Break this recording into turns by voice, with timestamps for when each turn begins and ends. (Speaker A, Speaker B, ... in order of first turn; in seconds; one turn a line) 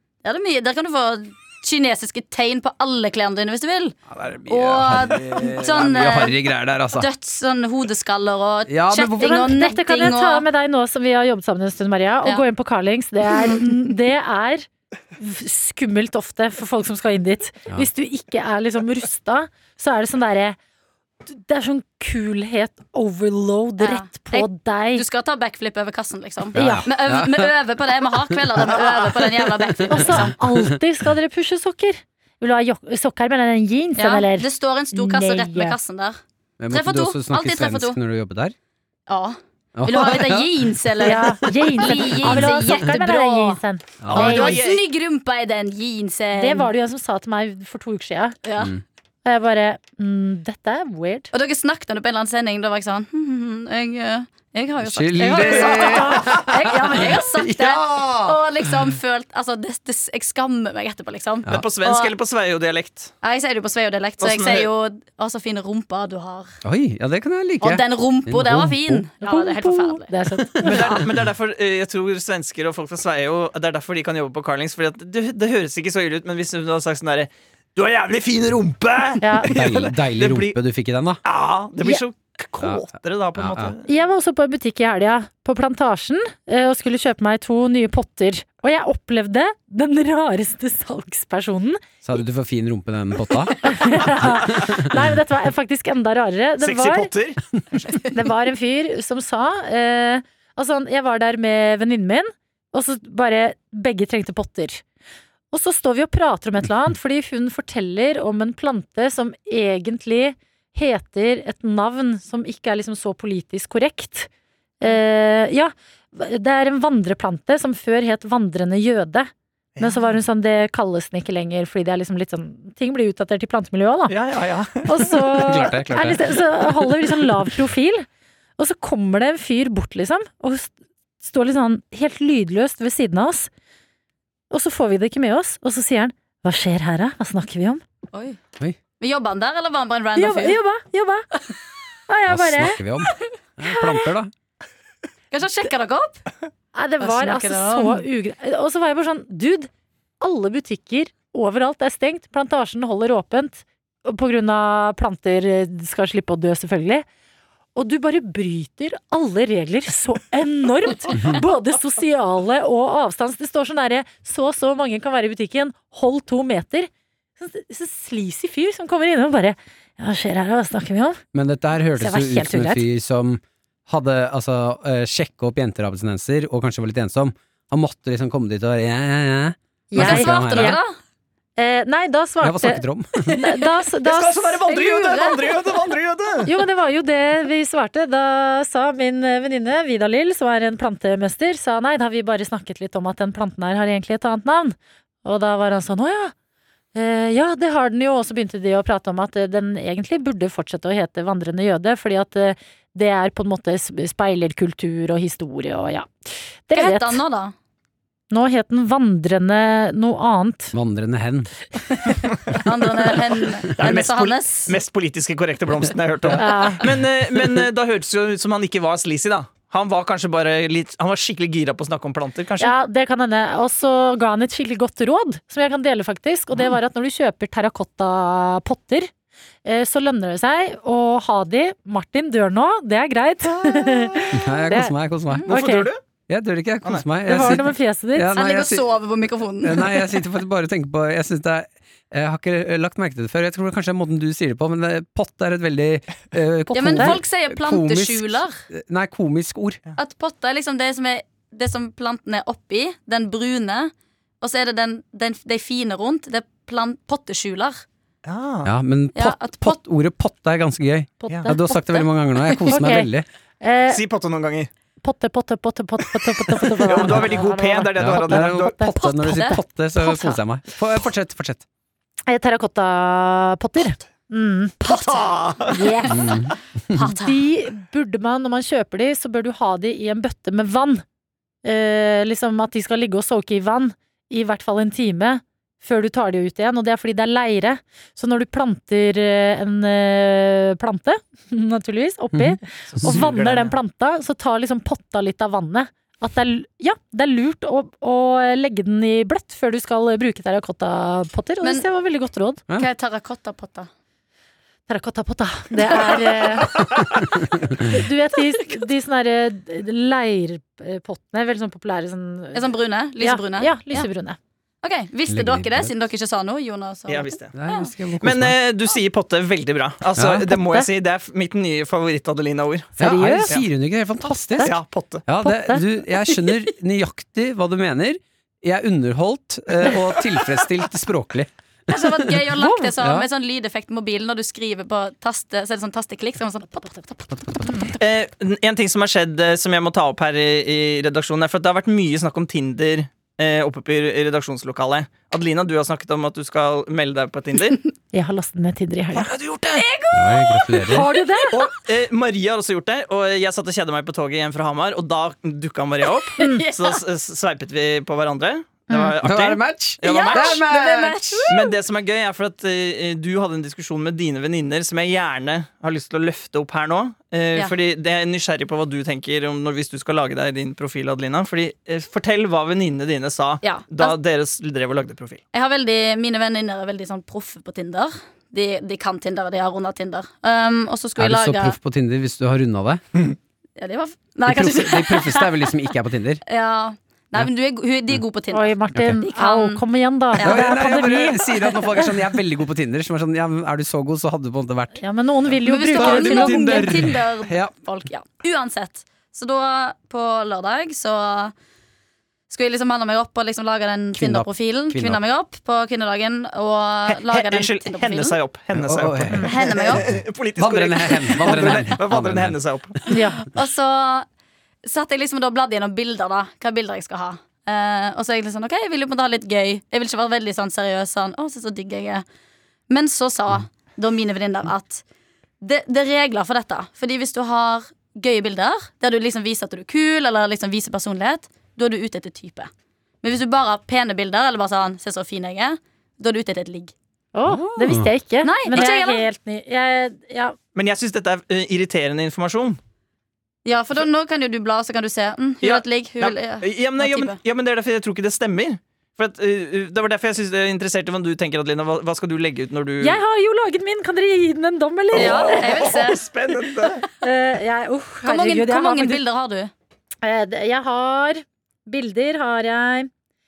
Speaker A: 0.2-4.0
Speaker B: 4.1-7.1
Speaker A: 4.5-6.4
Speaker A: 6.9-10.4
Speaker B: 8.7-9.4
Speaker C: 9.2-20.6
Speaker C: 21.2-25.0
Speaker A: 23.8-30.3
Speaker B: 26.5-27.5
Speaker C: 26.6-26.9
Speaker C: 29.9-35.8
Speaker B: 29.9-30.8
Speaker A: 34.0-36.2
Speaker B: 36.6-38.5
Speaker A: 36.7-38.0
Speaker A: 39.1-43.6
Speaker B: 39.8-40.5
Speaker C: 41.0-44.6
Speaker B: 41.0-42.6
Speaker B: 44.0-44.4
Speaker D: 44.1-44.8
Speaker A: 44.1-46.7
Speaker C: 46.3-48.4
Speaker A: 48.4-48.7
Speaker C: 49.2-51.3
Speaker A: 51.3-62.1
Speaker B: 54.8-58.4
Speaker D: 55.4-56.4
Speaker D: 61.5-63.1
Speaker A: 63.2-66.5
Speaker D: 64.2-64.7
Speaker B: 66.6-69.0
Speaker A: 67.6-70.1
Speaker C: 69.2-70.9
Speaker B: 70.5-71.0
Speaker D: 70.6-80.6
Speaker C: 79.2-79.5
Speaker B: 79.5-81.2
Speaker D: 81.2-83.9
Speaker B: 83.3-83.7
Speaker C: 83.8-91.8
Speaker B: 92.0-94.9
Speaker C: 93.6-97.1
Speaker D: 96.6-97.4
Speaker C: 98.1-104.8
Speaker C: 105.5-114.3
Speaker C: 114.8-124.1
Speaker D: 119.8-120.1
Speaker D: 124.1-125.2
Speaker C: 124.8-128.1
Speaker B: 125.4-126.3
Speaker C: 128.6-133.5
Speaker C: 134.5-137.8
Speaker A: 138.1-138.4
Speaker A: 139.0-140.6
Speaker C: 140.2-141.2
Speaker C: 142.1-142.8
Speaker B: 142.3-144.3
Speaker C: 143.6-144.0
Speaker A: 145.3-146.2
Speaker C: 146.7-149.7
Speaker A: 147.0-148.0
Speaker C: 150.2-157.1
Speaker C: 157.8-171.2
Speaker B: 171.3-180.8
Speaker C: 172.0-172.8
Speaker C: 179.9-180.8
Speaker A: 179.9-180.9
Speaker C: 181.6-185.2
Speaker B: 182.4-183.4
Speaker D: 184.0-186.5
Speaker A: 184.7-185.5
Speaker C: 186.4-196.3
Speaker C: 196.9-206.1
Speaker C: 206.7-207.2
Speaker A: 206.7-207.5
Speaker C: 208.3-210.7
Speaker B: 210.7-211.5
Speaker A: 211.9-214.7
Speaker D: 213.8-222.7
Speaker C: 216.4-216.8
Speaker C: 222.6-229.1
Speaker C: 229.6-234.9
Speaker B: 234.3-235.5
Speaker C: 235.4-235.9
Speaker D: 235.5-236.0
Speaker B: 236.3-238.9
Speaker C: 237.2-238.3
Speaker A: 238.3-240.1
Speaker B: 239.6-249.8
Speaker A: 246.7-248.6
Speaker A: 250.0-257.8
Speaker D: 258.2-258.7
Speaker B: 258.6-263.2
Speaker A: 259.2-259.8
Speaker C: 261.2-261.8
Speaker C: 262.7-263.1
Speaker C: 263.6-264.0
Speaker D: 263.9-264.7
Speaker C: 265.0-269.4
Speaker D: 266.5-268.8
Speaker B: 268.0-271.6
Speaker A: 269.0-269.6
Speaker C: 270.0-270.4
Speaker C: 272.3-274.9
Speaker A: 274.9-276.4
Speaker D: 274.9-275.8
Speaker C: 275.7-276.4
Speaker B: 276.1-277.1
Speaker A: 276.9-277.4
Speaker C: 277.2-281.0
Speaker C: 281.6-302.6
Speaker B: 292.3-293.2
Speaker D: 292.9-293.8
Speaker A: 302.8-303.9
Speaker C: 304.9-306.8
Speaker B: 307.3-308.0
Speaker C: 307.8-312.6
Speaker A: 312.5-314.1
Speaker C: 313.2-314.4
Speaker A: 314.8-317.9
Speaker B: 315.3-315.9
Speaker D: 317.1-317.5
Speaker B: 317.5-318.6
Speaker D: 318.2-323.7
Speaker B: 320.2-320.5
Speaker C: 320.5-320.9
Speaker B: 323.0-324.7
Speaker C: 323.0-323.6
Speaker D: 324.6-325.2
Speaker B: 325.3-332.3
Speaker C: 325.4-325.8
Speaker A: 331.9-337.2
Speaker C: 332.6-332.9
Speaker B: 333.0-333.3
Speaker D: 338.0-347.9
Speaker C: 348.1-349.3
Speaker D: 349.1-349.8
Speaker A: 349.8-351.4
Speaker B: 350.1-351.1
Speaker C: 350.9-351.6
Speaker D: 351.5-360.6
Speaker A: 356.4-357.0
Speaker C: 356.4-356.6
Speaker C: 358.9-359.1
Speaker B: 359.2-361.6
Speaker A: 360.0-361.6
Speaker D: 361.5-375.4
Speaker A: 373.6-374.2
Speaker A: 375.5-381.8
Speaker B: 381.2-383.0
Speaker A: 383.8-385.7
Speaker B: 384.4-386.4
Speaker A: 386.5-389.8
Speaker C: 388.5-392.0
Speaker A: 390.4-390.8
Speaker B: 390.4-395.0
Speaker C: 395.0-396.9
Speaker A: 395.6-401.5
Speaker B: 395.9-397.7
Speaker A: 402.5-408.4
Speaker B: 404.1-405.2
Speaker D: 407.1-413.0
Speaker B: 408.7-409.5
Speaker A: 409.4-410.1
Speaker B: 410.0-413.0
Speaker A: 411.5-411.8
Speaker C: 413.1-413.4
Speaker A: 413.1-414.3
Speaker A: 414.8-422.2
Speaker A: 422.9-425.0
Speaker A: 425.6-432.7
Speaker A: 433.2-436.9
Speaker C: 437.3-440.6
Speaker B: 437.5-438.1
Speaker A: 438.4-439.2
Speaker D: 440.7-442.8
Speaker A: 443.6-447.4
Speaker D: 445.6-453.2
Speaker C: 453.0-455.6
Speaker D: 455.1-457.1
Speaker A: 455.1-456.3
Speaker C: 457.2-459.2
Speaker A: 458.2-459.7
Speaker C: 460.2-463.1